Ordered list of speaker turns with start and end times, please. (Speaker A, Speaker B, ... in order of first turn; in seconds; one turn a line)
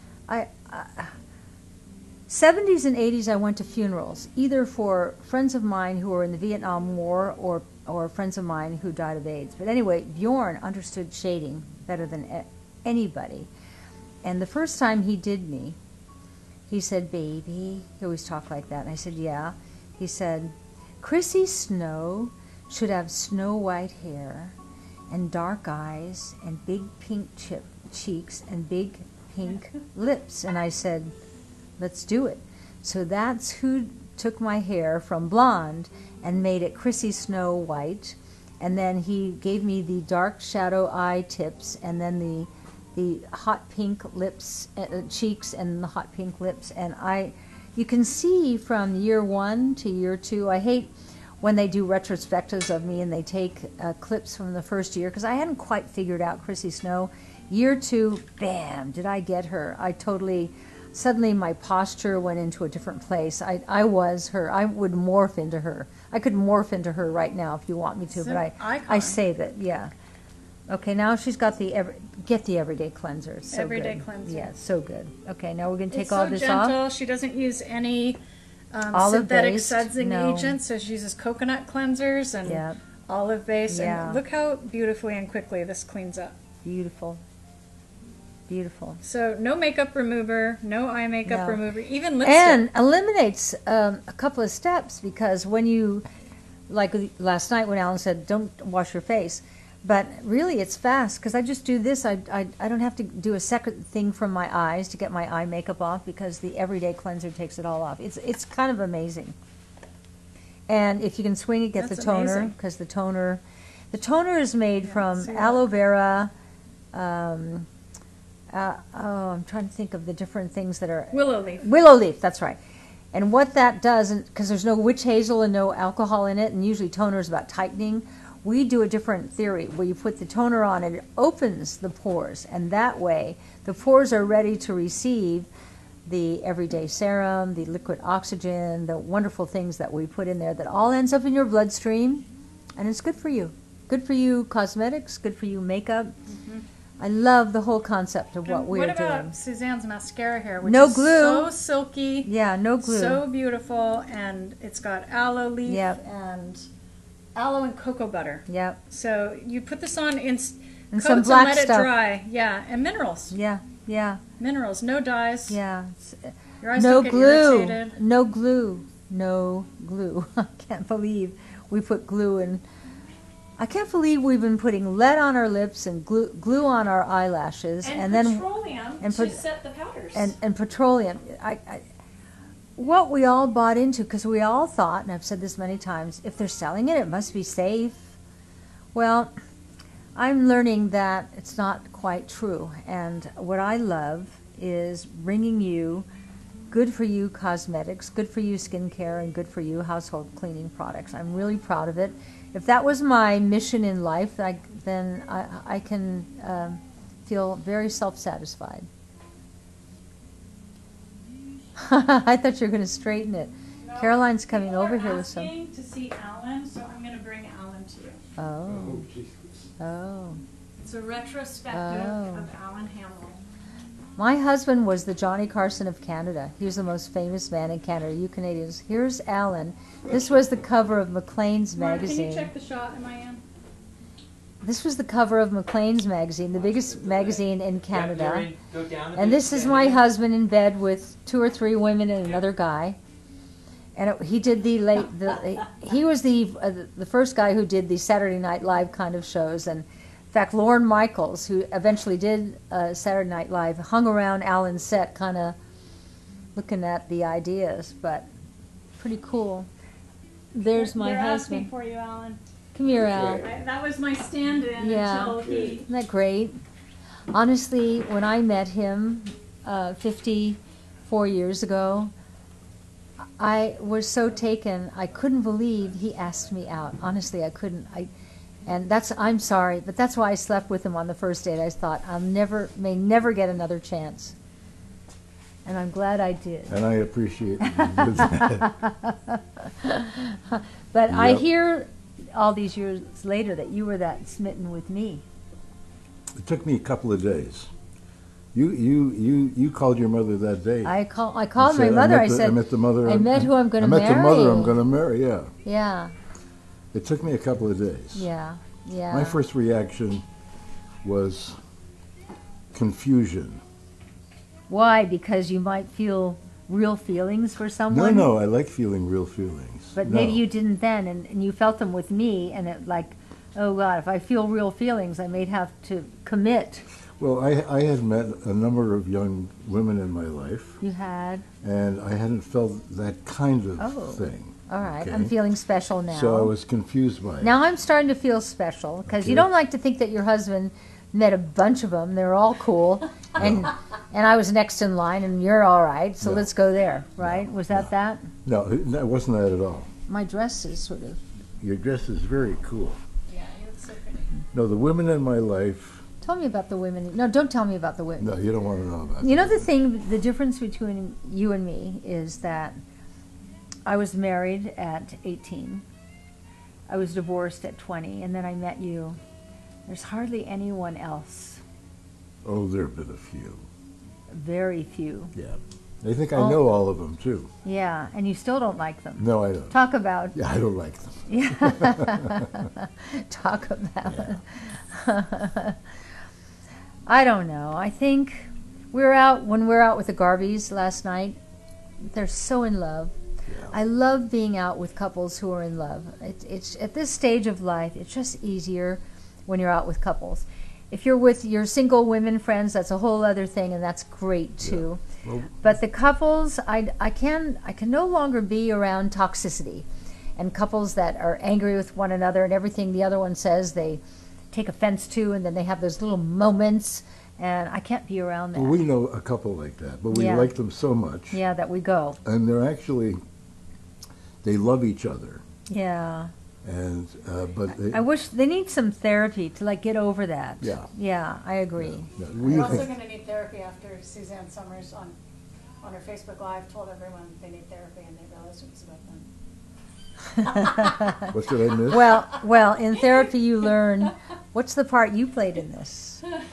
Speaker A: 0.3-1.1
Speaker A: 2.3-13.5
Speaker A: 14.2-15.8
Speaker A: 16.7-24.5
Speaker A: 25.1-31.1
Speaker A: 31.8-69.9
Speaker B: 68.1-69.2
Speaker A: 70.7-76.8
Speaker B: 73.5-74.5
Speaker B: 75.9-78.2
Speaker B: 78.7-86.3
Speaker A: 78.9-80.6
Speaker A: 82.4-82.8
Speaker A: 83.7-84.2
Speaker A: 86.6-87.2
Speaker A: 88.5-89.0
Speaker B: 89.0-92.6
Speaker A: 91.2-91.6
Speaker A: 92.2-96.0
Speaker A: 96.7-109.3
Speaker A: 110.7-116.3
Speaker B: 111.8-112.5
Speaker B: 114.8-115.6
Speaker A: 116.9-117.7
Speaker A: 118.5-122.6
Speaker B: 121.1-121.7
Speaker A: 123.1-135.5
Speaker A: 136.1-142.2
Speaker A: 142.8-146.1
Speaker B: 146.3-146.6
Speaker A: 147.0-149.3
Speaker B: 148.4-152.3
Speaker A: 150.6-151.5
Speaker A: 152.2-153.2
Speaker B: 152.8-156.7
Speaker A: 155.7-156.0
Speaker B: 157.3-163.3
Speaker A: 158.5-158.8
Speaker A: 160.9-161.9
Speaker A: 163.3-164.2
Speaker B: 164.4-165.6
Speaker A: 165.5-172.6
Speaker B: 166.6-168.0
Speaker A: 173.6-178.4
Speaker B: 177.8-180.3
Speaker A: 179.0-179.4
Speaker A: 180.1-181.8
Speaker A: 182.8-188.1
Speaker A: 188.9-189.3
Speaker A: 190.2-196.1
Speaker A: 196.7-208.9
Speaker A: 211.8-215.5
Speaker B: 213.8-218.2
Speaker A: 218.4-219.1
Speaker C: 218.7-219.7
Speaker A: 219.8-220.4
Speaker B: 220.8-223.4
Speaker A: 221.7-222.5
Speaker A: 224.2-232.5
Speaker B: 231.8-233.4
Speaker A: 234.6-238.5
Speaker D: 236.9-240.0
Speaker A: 239.1-243.0
Speaker A: 243.9-255.6
Speaker A: 256.5-258.3
Speaker A: 259.0-259.7
Speaker A: 260.5-261.7
Speaker B: 260.6-262.4
Speaker A: 262.7-263.4
Speaker C: 263.0-263.4
Speaker B: 263.2-265.9
Speaker A: 264.8-266.6
Speaker C: 265.4-265.8
Speaker A: 267.3-272.1
Speaker A: 273.4-278.1
Speaker A: 278.6-284.3
Speaker A: 285.6-286.7
Speaker C: 286.7-288.8
Speaker A: 287.6-295.2
Speaker C: 291.1-291.4
Speaker C: 296.3-297.7
Speaker C: 298.5-300.9
Speaker A: 300.8-304.8
Speaker C: 301.6-305.5
Speaker A: 305.6-306.1
Speaker C: 306.9-308.3
Speaker A: 308.1-309.4
Speaker C: 309.1-310.2
Speaker C: 311.0-311.6
Speaker C: 312.7-313.6
Speaker A: 314.7-318.3
Speaker C: 317.9-320.4
Speaker A: 319.9-326.8
Speaker C: 327.2-330.8
Speaker A: 330.8-331.4
Speaker C: 331.6-335.3
Speaker A: 333.8-336.5
Speaker C: 336.1-337.5
Speaker A: 337.4-348.3
Speaker C: 339.1-339.5
Speaker C: 343.4-343.7
Speaker C: 346.2-346.5
Speaker C: 347.2-347.9
Speaker C: 348.4-349.9
Speaker A: 350.1-351.2
Speaker C: 351.6-353.0
Speaker B: 353.3-354.4
Speaker C: 354.5-356.0
Speaker A: 356.2-358.3
Speaker C: 358.2-359.7
Speaker A: 359.2-362.8
Speaker A: 363.9-365.8
Speaker A: 366.9-369.2
Speaker A: 369.9-371.6
Speaker C: 372.4-373.6
Speaker A: 374.3-375.3
Speaker C: 375.3-377.5
Speaker A: 377.6-380.4
Speaker C: 379.2-379.8
Speaker C: 380.3-382.5
Speaker A: 381.3-385.8
Speaker C: 384.1-384.4
Speaker A: 387.1-391.4
Speaker A: 392.0-393.1
Speaker C: 393.5-393.7
Speaker A: 393.7-405.0
Speaker C: 404.6-405.6
Speaker A: 405.6-409.9
Speaker A: 410.4-414.0
Speaker A: 414.5-418.8
Speaker C: 418.5-421.4
Speaker A: 420.1-420.5
Speaker A: 421.3-422.2
Speaker C: 422.2-423.2
Speaker C: 424.4-425.4
Speaker A: 425.7-426.3
Speaker C: 426.6-428.0
Speaker A: 427.7-432.9
Speaker C: 430.6-430.9
Speaker C: 431.8-432.9
Speaker B: 432.5-435.1
Speaker B: 435.8-439.3
Speaker A: 440.3-441.3
Speaker C: 441.3-442.2
Speaker A: 441.9-446.2